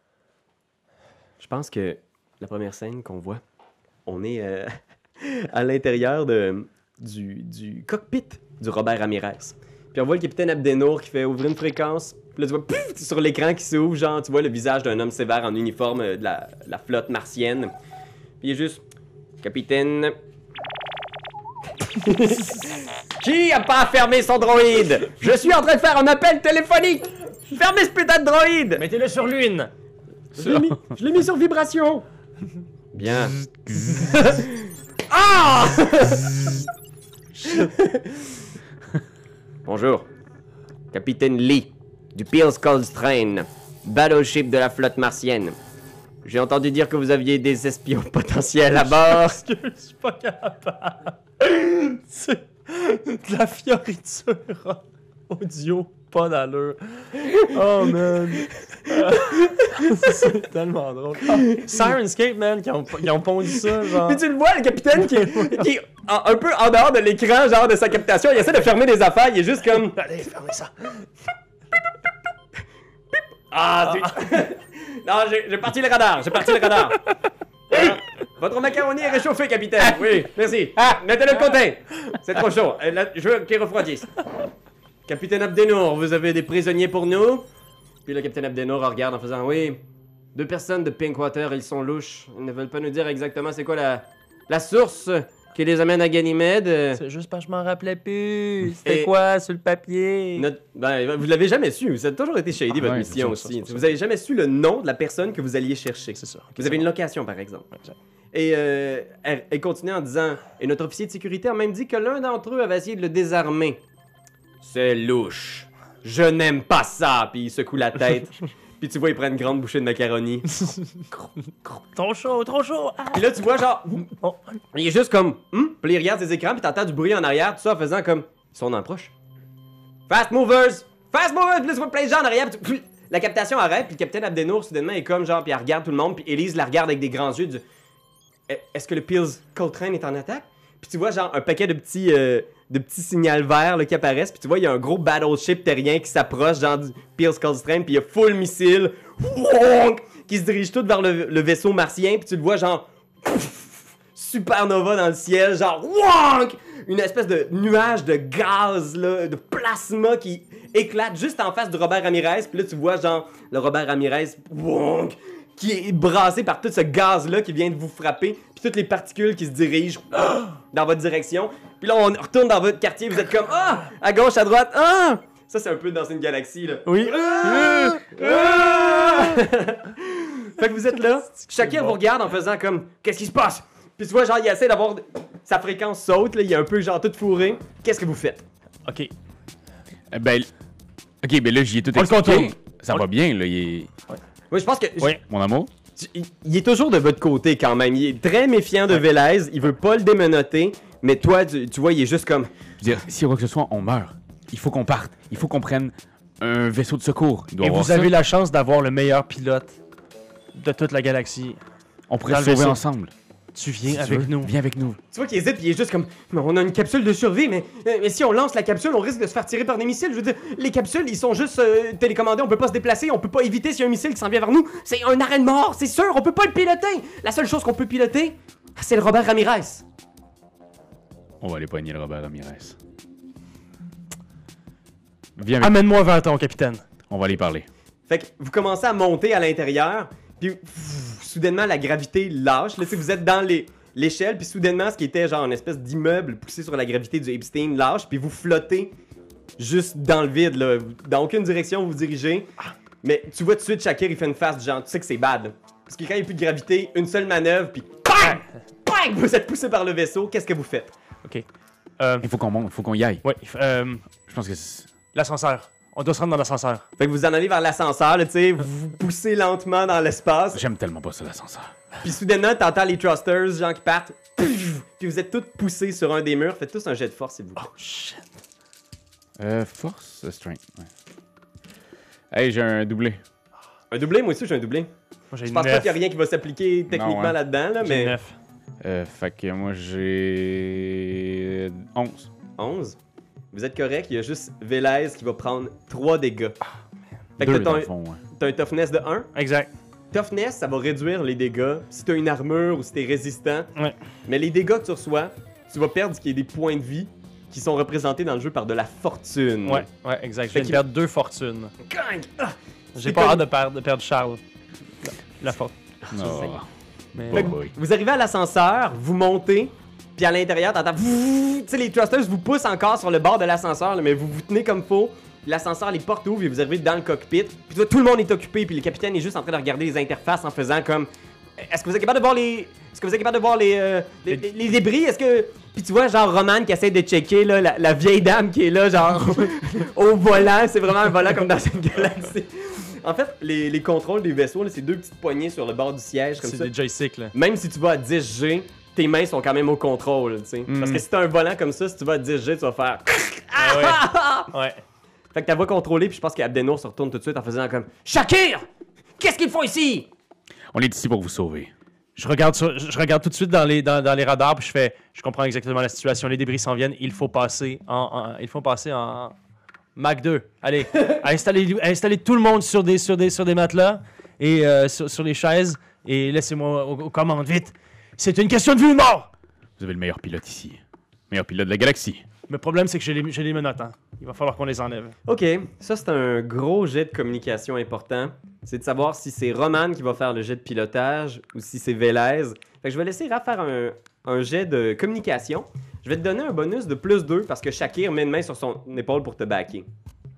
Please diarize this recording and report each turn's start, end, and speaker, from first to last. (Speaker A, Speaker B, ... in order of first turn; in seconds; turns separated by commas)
Speaker A: 1.4-3.4, Speaker A: 4.1-17.7, Speaker A: 18.4-18.8, Speaker A: 19.4-20.1, Speaker A: 21.9-28.8, Speaker B: 28.8-29.7, Speaker A: 30.4-32.0, Speaker C: 30.4-30.8, Speaker A: 32.9-36.3, Speaker C: 33.7-34.0, Speaker A: 37.5-38.1, Speaker A: 39.7-40.1, Speaker A: 40.9-45.6, Speaker A: 46.2-49.4, Speaker B: 48.8-64.2, Speaker A: 58.9-60.1, Speaker A: 61.3-61.9, Speaker A: 63.8-70.0, Speaker B: 65.0-65.6, Speaker B: 70.0-71.1, Speaker A: 73.5-77.0, Speaker A: 77.7-84.1, Speaker A: 85.1-87.5, Speaker A: 88.1-89.8, Speaker A: 90.3-97.0, Speaker B: 97.0-100.5, Speaker A: 98.8-99.1, Speaker A: 100.4-107.7, Speaker C: 102.7-103.5, Speaker B: 106.2-106.9, Speaker A: 108.3-113.8, Speaker A: 114.6-120.6, Speaker B: 120.7-123.4, Speaker A: 123.1-124.1, Speaker B: 124.1-124.6, Speaker A: 124.7-129.1, Speaker A: 130.1-137.6, Speaker A: 138.5-188.4, Speaker B: 176.9-179.5, Speaker B: 181.6-181.9, Speaker B: 188.9-189.1, Speaker C: 190.1-190.5, Speaker C: 191.2-193.9, Speaker B: 191.9-193.0, Speaker A: 194.5-195.2, Speaker C: 195.2-195.7, Speaker A: 196.0-202.5, Speaker C: 202.8-208.1, Speaker B: 207.6-209.8, Speaker B: 210.6-211.6, Speaker C: 212.1-213.1, Speaker B: 212.3-212.8, Speaker B: 213.6-214.5, Speaker C: 213.9-215.0, Speaker A: 215.1-229.8, Speaker C: 231.4-232.8, Speaker C: 235.4-235.8, Speaker B: 235.6-236.8, Speaker C: 237.1-237.7, Speaker A: 238.1-248.9, Speaker A: 249.6-252.5, Speaker A: 253.0-260.9, Speaker B: 262.0-262.3, Speaker C: 262.2-263.2, Speaker B: 263.2-264.1, Speaker C: 264.3-264.9, Speaker B: 265.1-266.9, Speaker A: 267.0-270.6, Speaker C: 270.5-271.7, Speaker A: 272.0-277.6, Speaker B: 277.6-278.4, Speaker C: 279.4-280.9, Speaker C: 282.3-283.2, Speaker A: 283.9-284.9, Speaker B: 285.3-286.0, Speaker A: 285.5-288.2, Speaker C: 286.9-287.4, Speaker B: 287.8-288.4, Speaker C: 288.8-292.3, Speaker A: 292.6-293.0, Speaker A: 293.5-296.6, Speaker A: 297.4-299.3, Speaker C: 297.4-298.2, Speaker B: 299.4-299.7, Speaker A: 300.1-303.7, Speaker A: 304.3-309.9, Speaker B: 309.7-311.7, Speaker A: 310.5-310.8, Speaker A: 311.8-312.5, Speaker B: 312.9-314.4, Speaker A: 313.0-313.4, Speaker B: 315.0-316.4, Speaker A: 316.1-316.5, Speaker C: 316.1-316.7, Speaker B: 317.1-317.5, Speaker C: 317.3-317.7, Speaker A: 317.3-346.7, Speaker B: 346.4-347.3, Speaker A: 347.3-354.5, Speaker C: 350.7-351.0, Speaker B: 353.6-354.8, Speaker A: 355.3-358.7, Speaker A: 359.2-360.1, Speaker C: 360.7-361.7, Speaker B: 362.2-369.4, Speaker B: 370.0-379.3, Speaker C: 379.8-382.2, Speaker B: 382.5-385.1, Speaker A: 385.3-399.9